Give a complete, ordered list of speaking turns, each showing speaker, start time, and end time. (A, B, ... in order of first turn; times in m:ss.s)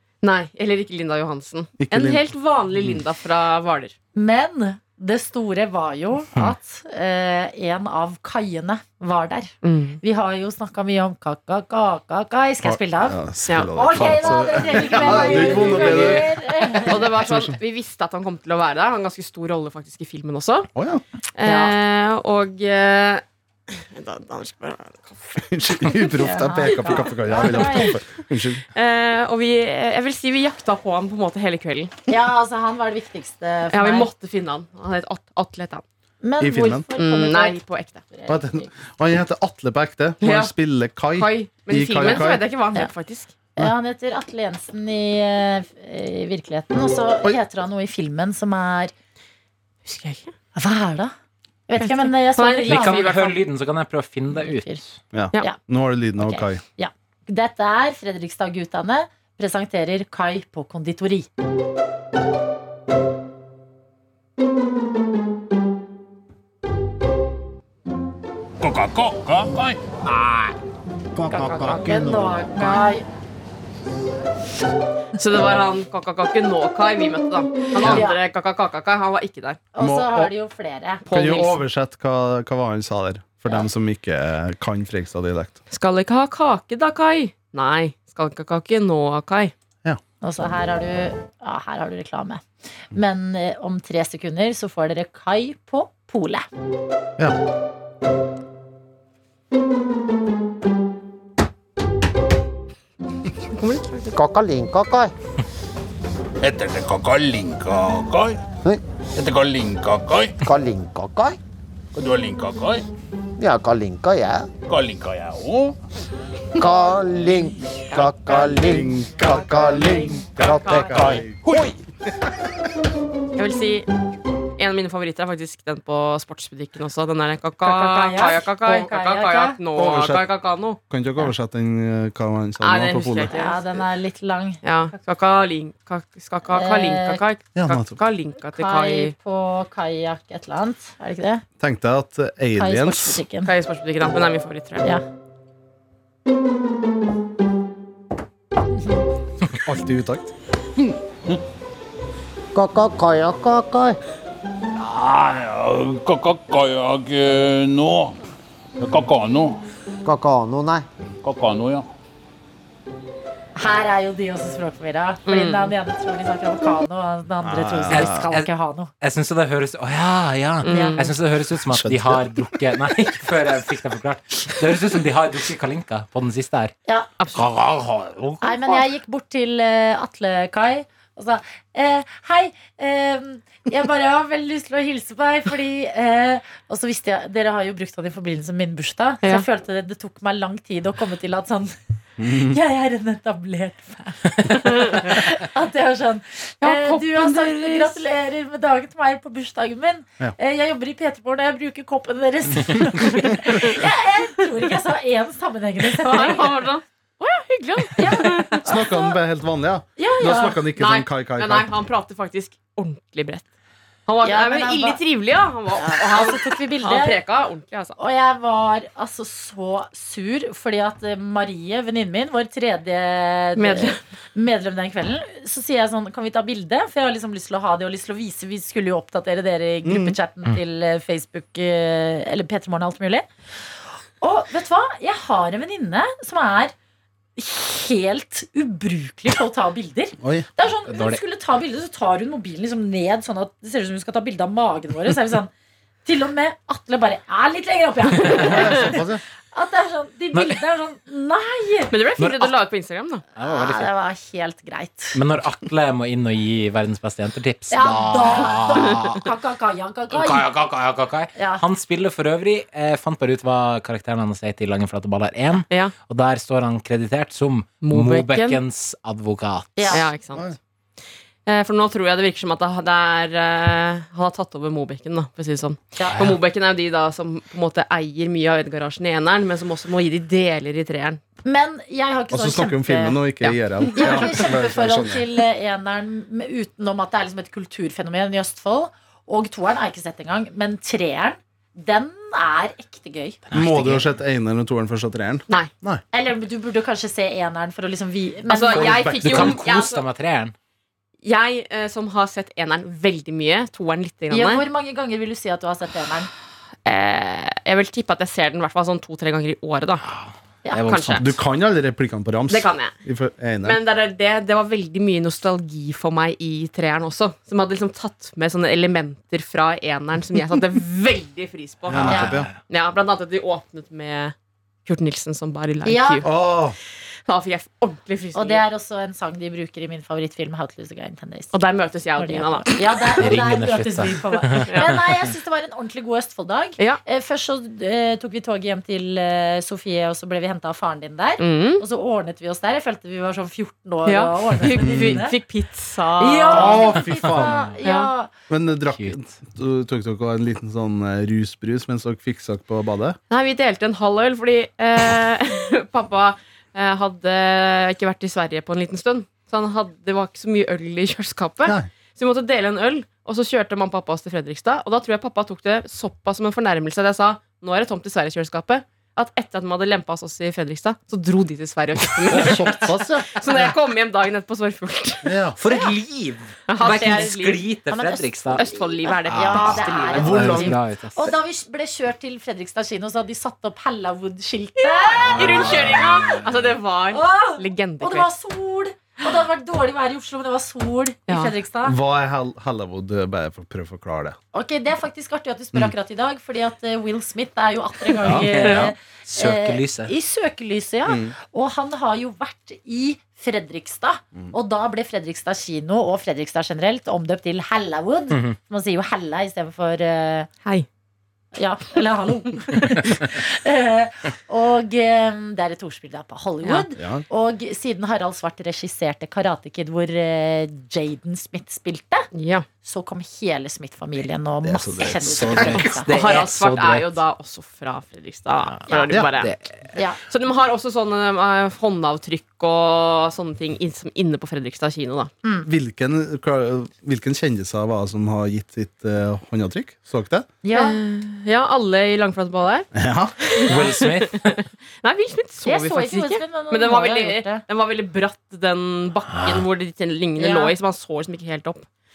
0:00.2-0:03.9 A
0:01.8-0:02.2 B
0:04.1-0:13.2 C
0:09.6-0:10.0 A
0:12.6-0:16.3 B
0:13.5-0:13.8 A
0:13.7-0:17.1 C
0:14.7-0:15.8 A
0:14.8-0:16.8 D
0:16.9-0:20.7 A
0:17.2-0:17.6 B
0:20.8-0:21.0 B
0:21.4-0:26.0 A
0:21.4-0:21.7 C
0:25.5-0:28.6 B
0:26.2-0:28.0 C
0:26.7-0:27.9 A
0:28.7-0:31.9 A
0:32.1-0:34.1 C
0:33.7-0:35.8 A
0:36.2-0:37.6 C
0:36.4-0:36.8 B
0:37.0-0:38.0 A
0:38.1-0:38.7 C
0:38.3-0:42.4 B
0:40.2-0:40.5 A
0:41.1-0:43.3 A
0:43.6-0:48.9 C
0:49.8-0:50.3 A
0:50.5-0:51.1 C
0:51.7-0:53.3 C
0:51.8-0:53.4 A
0:52.6-0:55.0 D
0:54.4-0:54.8 C
0:55.1-0:56.6 B
0:56.2-1:01.3 C
1:08.6-1:10.5 E
1:11.1-1:12.8 F
1:11.3-1:13.0 C
1:15.2-1:19.6 A
1:17.8-1:18.0 B
1:17.8-1:18.2 C
1:19.7-1:21.0 C
1:19.8-1:20.3 B
1:21.0-1:21.6 A
1:21.1-1:25.6 B
1:25.7-1:29.5 A
1:30.2-1:36.4 C
1:43.5-1:44.1 A
1:44.1-1:45.1 F
1:46.4-1:48.4 E
1:49.2-1:50.4 E
1:50.4-1:51.4 F
1:51.9-1:52.9 E
1:53.4-1:54.5 F
1:54.7-1:55.8 E
1:56.6-2:01.2 F
1:58.2-2:01.4 B
1:59.8-2:00.1 C
2:00.4-2:01.8 E
2:00.6-2:00.9 A
2:03.4-2:03.9 A
2:04.6-2:10.8 A
2:07.6-2:09.6 C
2:09.8-2:10.2 B
2:10.9-2:13.3 B
2:12.6-2:13.6 A
2:13.3-2:14.9 C
2:14.6-2:19.1 A
2:16.5-2:17.2 C
2:17.6-2:18.0 B
2:18.5-2:21.4 C
2:21.6-2:23.2 B
2:22.6-2:23.5 C
2:23.4-2:24.9 A
2:29.5-2:30.3 B
2:32.5-2:34.0 F
2:34.8-2:38.2 E
2:38.8-2:39.6 E
2:40.0-2:40.8 F
2:41.2-2:41.8 E
2:43.6-2:48.9 C
2:45.3-2:45.7 A
2:47.4-2:48.3 B
2:47.9-2:48.5 D
2:49.0-2:56.7 D
2:50.6-2:51.1 A
2:50.7-2:51.0 C
2:51.7-2:52.4 B
2:57.3-2:58.8 D
2:58.4-3:26.6 C
3:12.2-3:12.6 B
3:14.6-3:15.0 A
3:16.6-3:18.0 A
3:25.9-3:28.7 A
3:28.0-3:29.1 C
3:28.6-3:31.7 B
3:30.0-3:30.6 C
3:30.8-3:33.4 A
3:34.1-3:38.0 A
3:34.2-3:35.0 C
3:35.8-3:37.2 C
3:38.0-3:53.2 C
3:43.6-3:44.0 A
3:49.8-3:50.2 B
3:54.2-3:56.7 C
3:57.4-4:05.5 C
4:00.2-4:00.5 B
4:00.9-4:01.2 D
4:06.0-4:09.0 C
4:08.3-4:09.2 B
4:09.5-4:12.0 C
4:11.9-4:13.2 A
4:12.2-4:12.5 D
4:13.4-4:13.9 D
4:13.4-4:15.2 C
4:15.1-4:19.2 D
4:17.7-4:20.5 C
4:20.1-4:30.0 D
4:21.4-4:21.6 C
4:25.7-4:25.9 A
4:27.8-4:28.6 A
4:29.8-4:30.0 C
4:29.9-4:30.5 A
4:31.4-4:41.2 A
4:36.0-4:36.2 C
4:36.1-4:36.4 D
4:41.4-4:43.2 C
4:42.3-4:45.2 B
4:43.9-4:53.4 C
4:53.5-4:54.1 D
4:53.5-4:56.0 B
4:56.1-4:59.0 C
4:58.5-5:00.0 A
4:58.7-4:59.6 B
4:58.8-5:00.5 D
5:01.2-5:04.6 A
5:04.3-5:06.3 C
5:06.8-5:10.0 A
5:10.0-5:11.3 D
5:10.6-5:10.9 C
5:10.8-5:11.3 A
5:11.2-5:13.8 B
5:12.5-5:12.9 A
5:13.6-5:26.3 A
5:21.9-5:22.5 B
5:21.9-5:22.6 D
5:25.8-5:26.2 C
5:26.2-5:26.8 B
5:27.3-5:28.6 A
5:28.3-5:31.6 C
5:31.5-5:33.1 A
5:32.2-5:45.3 C
5:33.2-5:35.0 D
5:34.5-5:34.9 A
5:41.4-5:41.8 A
5:44.0-5:46.9 A
5:44.8-5:45.2 B
5:46.2-5:48.3 C
5:46.5-5:47.6 B
5:47.2-5:47.5 D
5:47.8-5:48.1 A
5:48.5-5:53.2 B
5:53.3-6:12.8 A
6:12.3-6:13.4 B
6:13.4-6:15.4 A
6:15.2-6:15.6 B
6:15.6-6:18.6 D
6:16.7-6:17.6 A
6:16.8-6:17.1 C
6:17.9-6:26.0 C
6:18.6-6:20.6 A
6:19.3-6:21.3 D
6:20.1-6:20.8 B
6:24.8-6:28.3 A
6:25.2-6:26.6 D
6:27.1-6:32.0 C
6:31.3-6:31.5 A
6:31.8-6:34.4 B
6:34.5-6:50.5 C
6:38.2-6:40.1 D
6:38.2-6:38.8 B
6:41.0-6:41.3 B
6:51.6-7:02.3 C
6:57.0-6:57.2 B
7:02.3-7:02.7 A
7:02.8-7:06.1 C
7:04.6-7:05.8 B
7:05.4-7:07.2 D
7:06.1-7:09.5 A
7:08.7-7:09.7 D
7:10.3-7:15.3 A
7:15.6-7:20.5 B
7:20.6-7:21.0 C
7:20.7-7:22.9 A
7:22.9-7:23.3 B
7:23.4-7:31.9 A
7:23.6-7:24.6 D
7:25.6-7:27.6 C
7:29.3-7:29.6 D
7:30.4-7:30.7 C